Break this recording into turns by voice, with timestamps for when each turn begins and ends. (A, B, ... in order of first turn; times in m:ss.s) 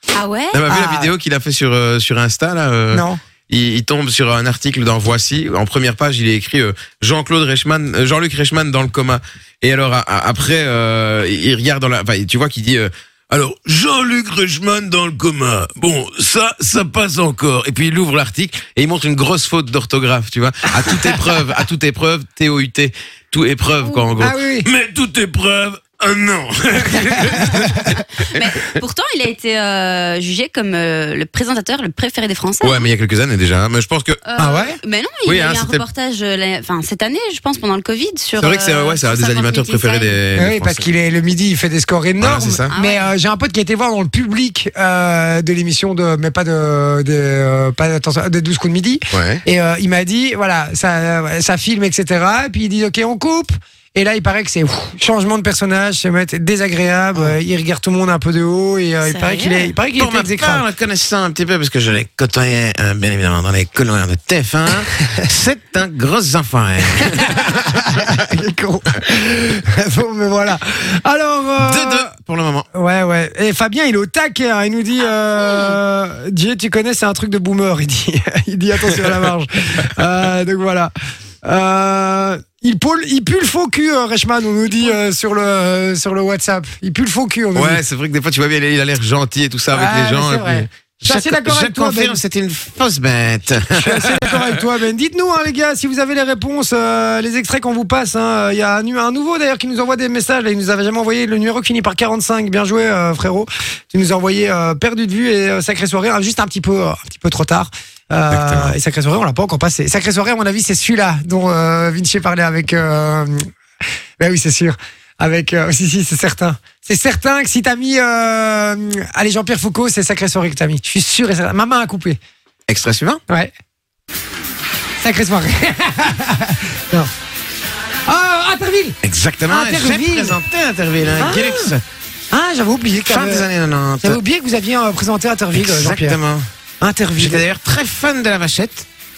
0:00.1-0:00.6 A
0:00.5-0:28.7 B
0:00.7-0:01.1 C
0:02.9-0:03.2 C
0:24.2-0:24.7 C
0:27.0-0:27.7 C
0:28.2-0:32.9 A
0:32.6-0:34.2 B
0:34.2-0:40.2 A
0:34.4-0:34.8 C
0:35.2-0:35.8 B
0:38.4-0:40.9 B
0:40.4-1:00.6 C
0:42.2-0:42.7 B
0:42.7-0:43.1 A
0:49.1-0:49.4 B
0:59.0-0:59.7 A
1:00.0-1:07.5 B
1:07.1-1:12.1 C
1:11.6-1:12.7 B
1:12.7-1:20.9 C
1:15.0-1:15.8 A
1:21.4-1:27.8 C
1:27.5-1:34.6 B
1:29.7-1:32.2 C
1:33.7-1:53.5 C
1:48.3-1:48.8 B
1:54.2-2:02.2 C
2:02.7-2:03.2 B
2:05.0-2:07.1 C
2:08.1-2:10.4 C
2:09.0-2:11.8 B
2:11.2-2:11.7 C
2:12.3-2:13.5 C
2:13.0-2:14.2 B
2:14.0-2:16.2 C
2:15.6-2:16.5 B
2:16.8-2:17.5 C
2:17.2-2:18.9 B